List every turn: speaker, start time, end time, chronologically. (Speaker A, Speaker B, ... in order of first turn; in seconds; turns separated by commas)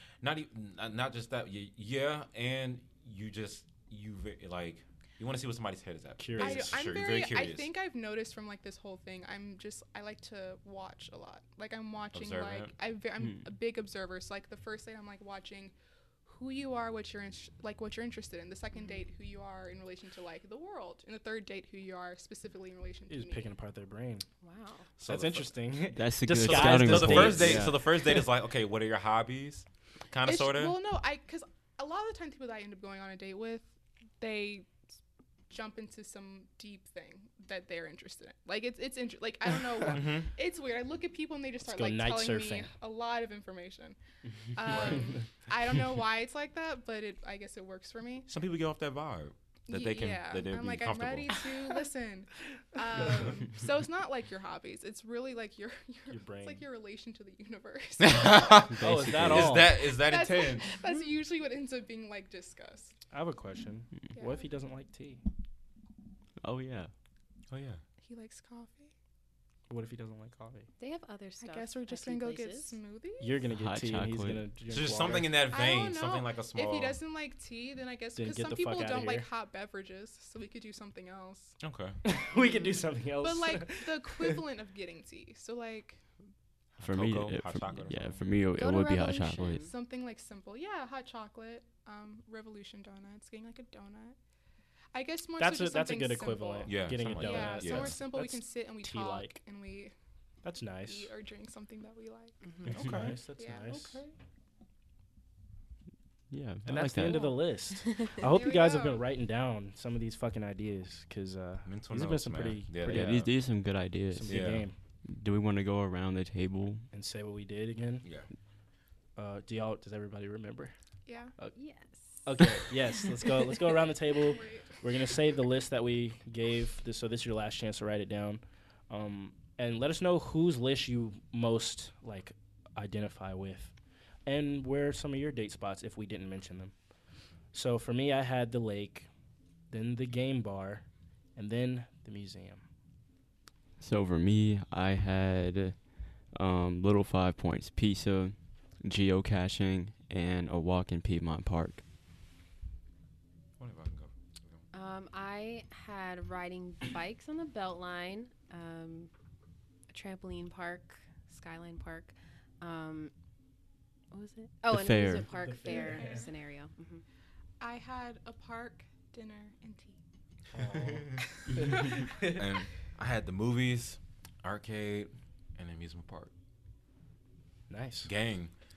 Speaker A: 0.2-7.7, Speaker B: 6.2-6.7, Speaker C: 6.4-15.7, Speaker A: 12.1-12.7, Speaker C: 16.3-23.5, Speaker D: 18.7-19.0, Speaker B: 23.1-24.2, Speaker D: 24.4-24.9, Speaker A: 25.0-25.5, Speaker B: 25.1-28.2, Speaker E: 25.9-27.8, Speaker A: 26.5-30.8, Speaker C: 30.2-33.7, Speaker C: 34.2-34.7, Speaker C: 35.5-44.0, Speaker A: 39.9-40.3, Speaker B: 41.7-42.7, Speaker C: 44.5-48.3, Speaker A: 44.6-45.1, Speaker A: 48.3-51.4, Speaker C: 49.7-58.6, Speaker B: 56.1-56.6, Speaker A: 58.0-60.8, Speaker E: 58.8-59.6, Speaker B: 58.8-59.7, Speaker C: 59.7-62.9, Speaker B: 63.1-65.2, Speaker C: 64.2-64.5, Speaker E: 66.4-66.9, Speaker A: 67.5-67.8, Speaker C: 68.0-68.9, Speaker B: 69.7-70.7, Speaker D: 70.8-72.8, Speaker C: 71.4-73.4, Speaker B: 73.2-75.4, Speaker E: 73.5-74.5, Speaker A: 74.7-77.0, Speaker C: 75.5-81.6, Speaker B: 78.2-79.3, Speaker A: 81.6-82.0, Speaker B: 82.0-84.4, Speaker D: 82.3-82.8, Speaker C: 83.2-86.0, Speaker A: 86.8-88.2, Speaker E: 86.8-89.7, Speaker C: 88.6-94.2, Speaker D: 89.3-89.7, Speaker C: 94.9-99.9, Speaker B: 95.4-99.3, Speaker A: 96.7-98.0, Speaker B: 100.4-101.1, Speaker C: 100.9-102.4, Speaker D: 102.4-102.8, Speaker A: 102.7-103.2, Speaker B: 102.7-104.0, Speaker C: 103.4-104.1, Speaker E: 106.3-107.3, Speaker B: 106.7-113.3, Speaker D: 107.2-108.2, Speaker C: 108.2-109.0, Speaker A: 111.7-113.3, Speaker E: 112.8-114.5, Speaker B: 114.1-114.8, Speaker A: 114.3-114.7, Speaker E: 115.0-116.9, Speaker B: 116.9-118.0, Speaker A: 118.0-118.3, Speaker B: 119.2-120.7, Speaker C: 121.1-121.3, Speaker D: 121.5-122.2, Speaker B: 122.2-133.7, Speaker C: 124.2-124.7, Speaker B: 134.3-136.7, Speaker B: 137.5-139.1, Speaker B: 139.7-142.6, Speaker E: 143.8-151.8, Speaker A: 153.6-154.6, Speaker D: 154.7-159.1, Speaker D: 159.9-163.1, Speaker D: 164.1-167.0, Speaker E: 164.7-165.3, Speaker B: 165.2-166.3, Speaker C: 165.6-166.3, Speaker C: 167.6-170.0, Speaker B: 170.5-172.4, Speaker A: 170.9-171.2, Speaker C: 171.7-171.9, Speaker A: 172.3-176.3, Speaker B: 177.7-178.1, Speaker A: 178.1-178.5